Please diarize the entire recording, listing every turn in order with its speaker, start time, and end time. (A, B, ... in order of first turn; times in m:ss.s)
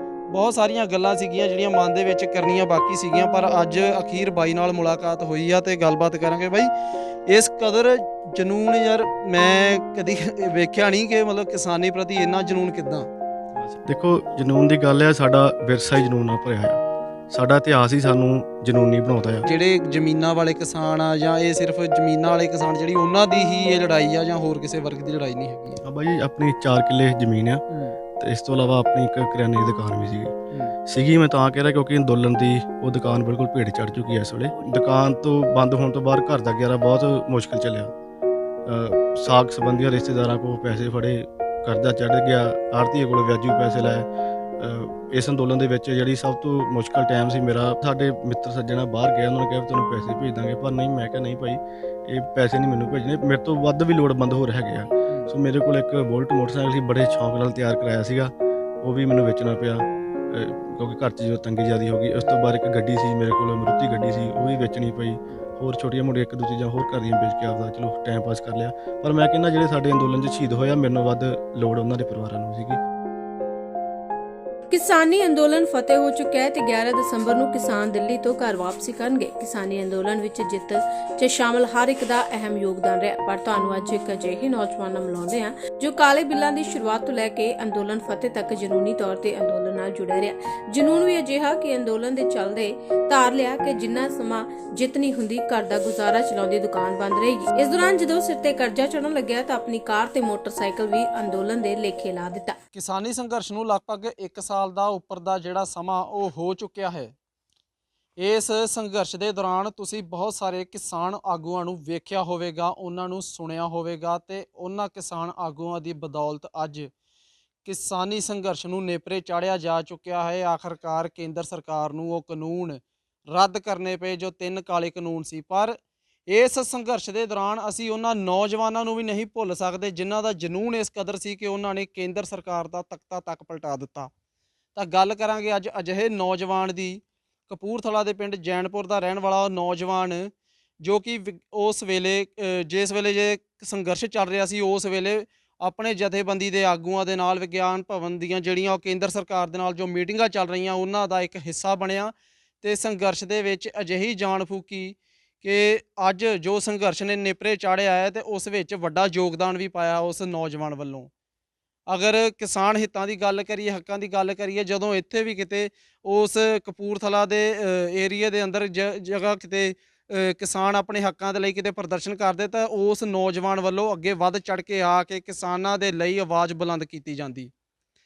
0:00.3-0:06.7 A
0:07.3-0:13.1 A
0:13.6-0:16.8 B
0:17.3-0:19.5 B
0:19.5-0:25.8 A
0:25.8-0:27.6 B
0:27.7-0:28.0 A
0:28.2-0:30.3 B
0:30.9-0:37.9 B
0:38.6-0:44.1 B
0:44.6-1:12.8 B
0:55.1-0:55.3 A
1:14.7-1:42.6 C
1:42.7-1:47.1 A
1:48.2-1:56.9 A
1:57.6-2:05.8 A
2:06.3-2:14.1 A
2:14.8-2:20.3 A
2:20.8-2:41.1 A
2:41.9-2:57.5 A